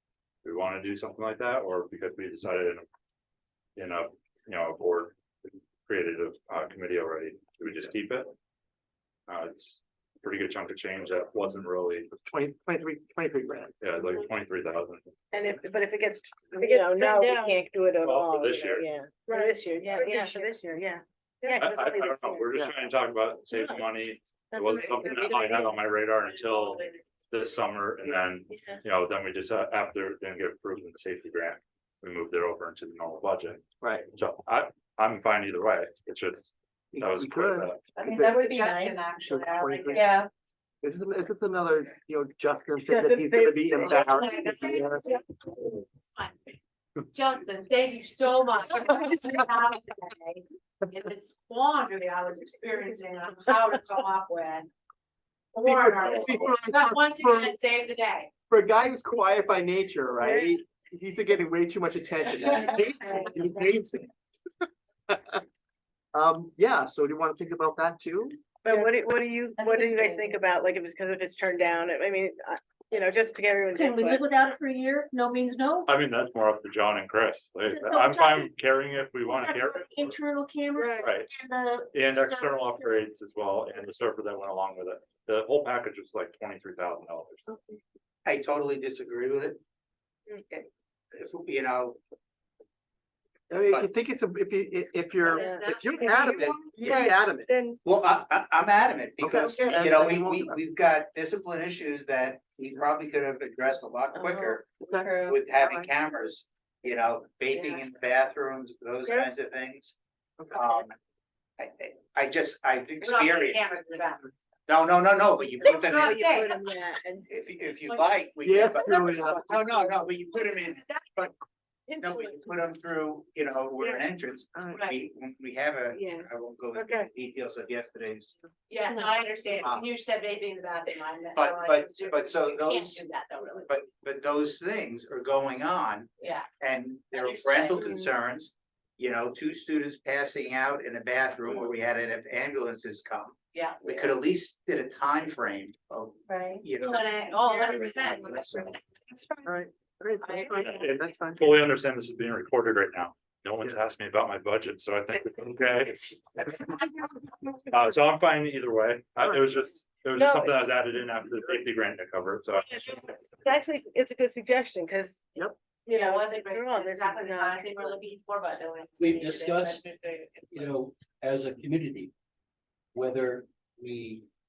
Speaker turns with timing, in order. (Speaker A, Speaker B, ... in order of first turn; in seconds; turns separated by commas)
Speaker A: 0.4-2.8, Speaker A: 3.8-5.2, Speaker A: 5.8-8.3, Speaker A: 9.3-12.1, Speaker B: 12.2-13.8, Speaker A: 13.8-15.1, Speaker C: 15.3-22.5, Speaker D: 16.7-17.6, Speaker A: 18.0-18.9, Speaker D: 19.3-20.5, Speaker A: 21.6-37.9, Speaker B: 22.5-22.8, Speaker C: 23.5-23.8, Speaker C: 24.5-25.7, Speaker C: 28.5-28.8, Speaker B: 36.9-38.5, Speaker E: 38.0-40.3, Speaker D: 38.2-39.1, Speaker B: 39.1-40.2, Speaker B: 40.8-45.1, Speaker C: 42.8-44.8, Speaker E: 43.8-45.2, Speaker E: 46.0-46.4, Speaker E: 47.1-54.7, Speaker E: 55.5-58.3, Speaker B: 55.6-57.5, Speaker B: 58.5-64.1, Speaker C: 60.2-60.5, Speaker E: 62.4-62.8, Speaker C: 63.0-63.4, Speaker B: 65.1-65.4, Speaker B: 66.1-68.4, Speaker C: 68.6-74.2, Speaker D: 69.6-70.4, Speaker D: 73.5-75.9, Speaker A: 75.8-80.2, Speaker D: 77.7-78.5, Speaker D: 79.2-83.0, Speaker C: 80.8-81.1, Speaker A: 81.0-81.3, Speaker A: 81.9-87.4, Speaker F: 88.2-89.6, Speaker F: 90.5-92.0, Speaker B: 93.5-97.5, Speaker E: 95.2-96.3, Speaker C: 95.3-96.5, Speaker D: 96.0-97.8, Speaker F: 96.2-97.2, Speaker F: 97.8-110.0, Speaker B: 99.2-100.6, Speaker C: 104.2-104.6, Speaker B: 104.8-105.9, Speaker D: 104.9-105.4, Speaker E: 107.5-107.8, Speaker F: 110.5-111.0, Speaker F: 111.6-113.8, Speaker E: 113.0-114.3, Speaker F: 114.7-116.4, Speaker E: 115.6-116.7, Speaker C: 115.7-117.2, Speaker F: 117.3-121.3, Speaker B: 118.4-119.6, Speaker C: 121.9-122.3, Speaker F: 122.0-128.4, Speaker B: 124.6-124.8, Speaker E: 124.7-125.0, Speaker C: 125.9-127.1, Speaker E: 128.7-133.7, Speaker F: 129.6-129.8, Speaker F: 131.3-133.0, Speaker F: 133.7-148.8, Speaker E: 136.2-136.5, Speaker E: 137.1-137.9, Speaker E: 143.5-144.2, Speaker D: 146.3-146.7, Speaker E: 146.8-149.6, Speaker B: 149.4-151.5, Speaker E: 150.2-150.9, Speaker A: 150.6-157.0, Speaker A: 157.7-163.2, Speaker C: 160.1-160.6, Speaker C: 162.7-165.3, Speaker C: 165.8-167.7, Speaker E: 165.9-170.7, Speaker G: 169.0-169.8, Speaker G: 170.5-172.1, Speaker G: 172.9-174.2